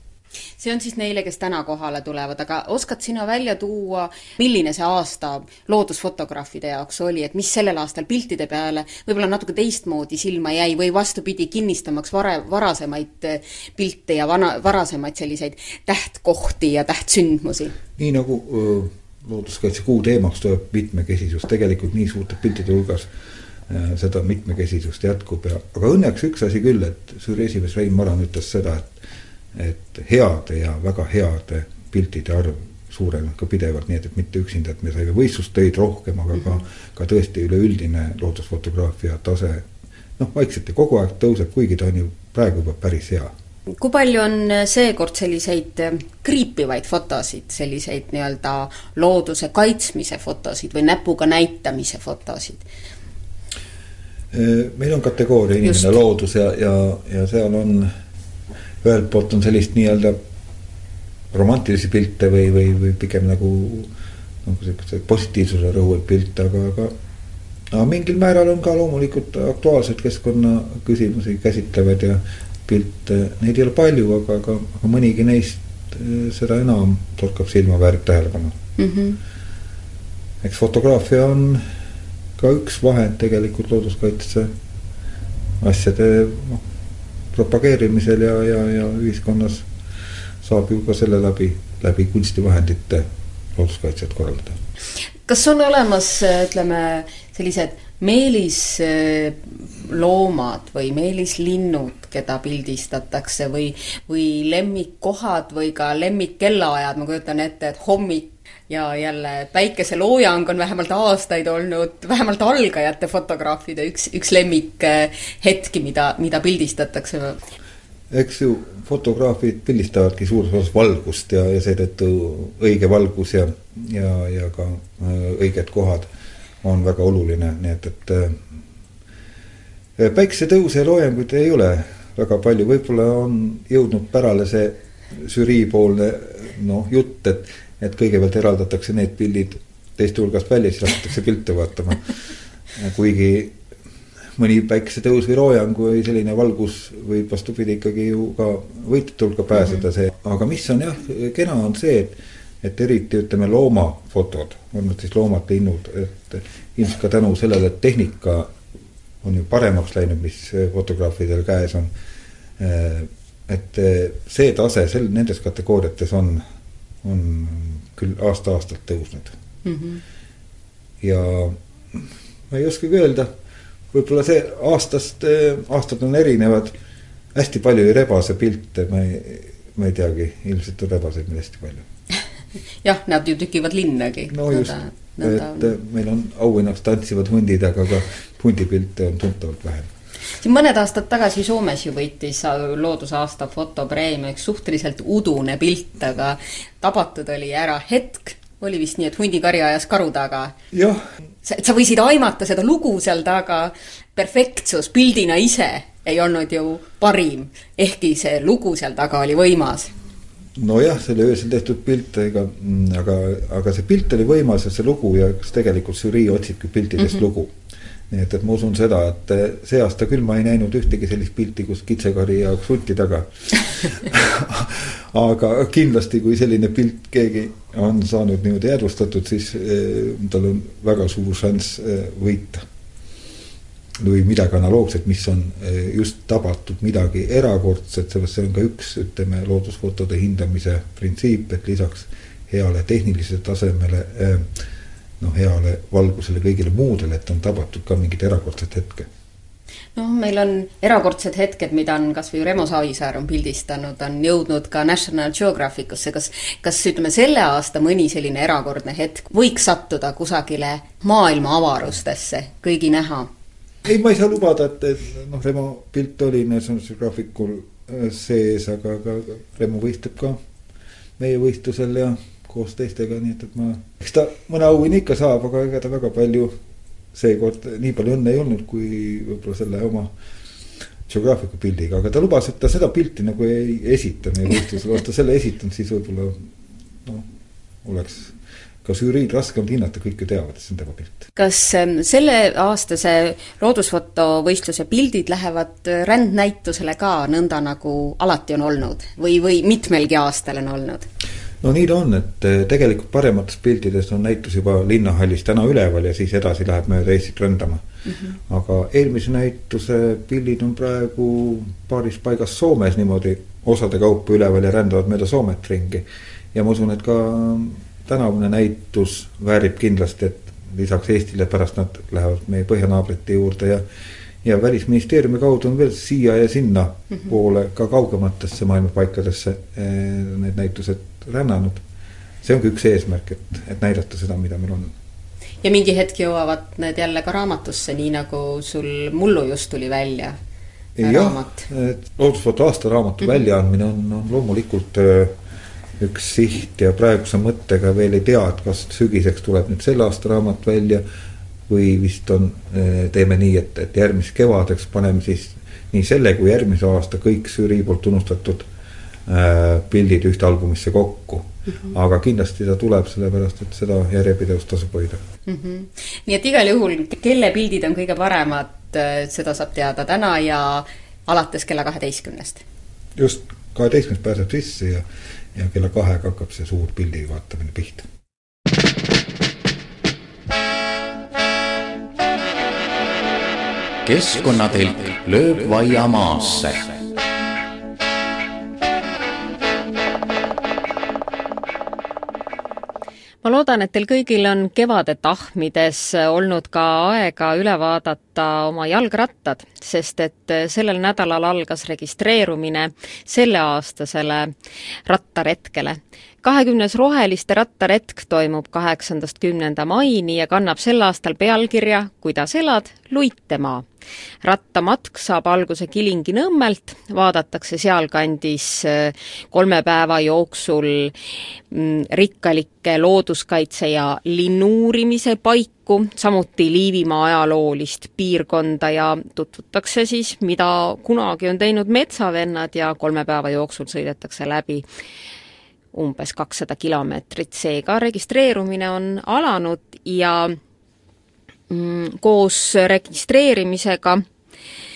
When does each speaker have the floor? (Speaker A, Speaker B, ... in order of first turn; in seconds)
Speaker A: 0.6-17.8, 43.7-52.7, 55.6-56.0, 78.8-79.2, 95.3-117.5, 169.7-170.0, 182.8-185.8, 190.3-200.6, 201.4-209.9, 249.9-263.3, 291.4-301.1, 308.1-308.4, 335.6-340.4, 341.0-341.7, 365.5-372.6
Speaker B: 18.0-23.1, 23.7-29.0, 29.5-39.7, 40.2-43.3, 54.3-57.9, 58.8-60.2, 61.3-63.9, 64.4-66.9, 67.7-78.5, 80.4-81.7, 82.4-84.5, 85.6-86.6, 87.3-89.7, 90.4-94.6, 118.1-126.1, 126.6-128.5, 130.0-142.1, 142.8-143.6, 144.3-158.5, 159.2-161.9, 162.6-166.4, 167.0-169.3, 171.0-173.3, 173.9-176.8, 177.3-181.8, 184.3-189.9, 200.7-201.0, 210.6-217.5, 218.1-232.7, 234.0-244.6, 245.2-249.1, 263.9-270.4, 271.2-276.6, 277.1-280.1, 281.1-286.5, 287.0-287.3, 287.8-291.3, 301.6-307.8, 308.5-323.9, 324.4-331.8, 332.4-334.9, 341.0-345.4, 346.0-351.1, 351.7-358.7, 359.3-365.2, 373.2-378.1
Speaker C: 384.1-387.0
Speaker D: 393.4-404.5, 405.1-413.9, 414.4-421.1, 421.7-434.9, 435.9-440.6, 441.7-444.2